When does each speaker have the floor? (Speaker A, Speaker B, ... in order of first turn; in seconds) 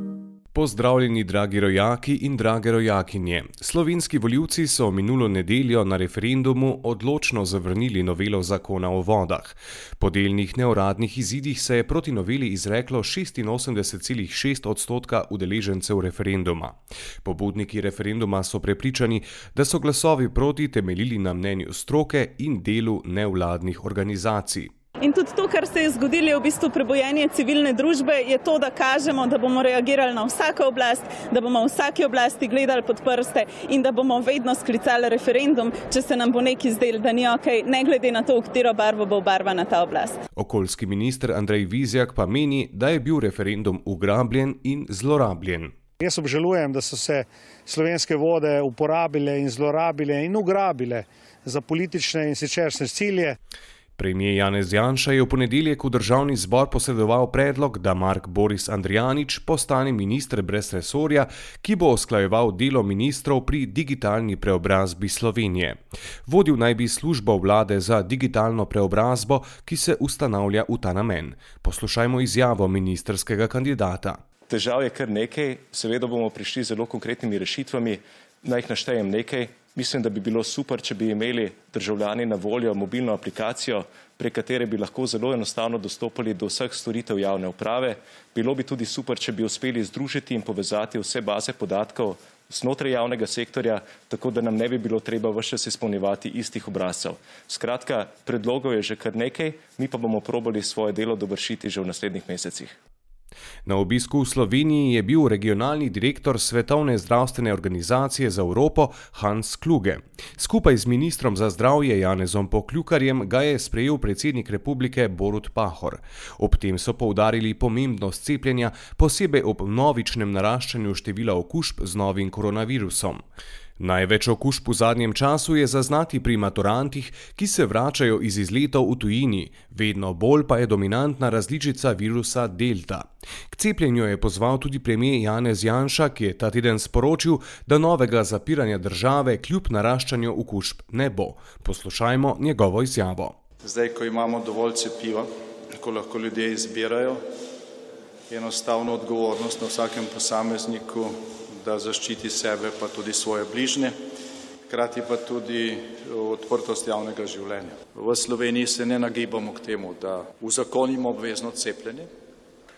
Speaker A: 0.5-24.7, 40.4-45.7, 54.0-74.2, 103.7-123.2, 123.8-143.4
Speaker B: 25.0-40.2
Speaker C: 46.0-53.4
Speaker D: 74.5-102.8
Speaker E: 143.6-147.2, 148.3-153.9, 154.7-162.1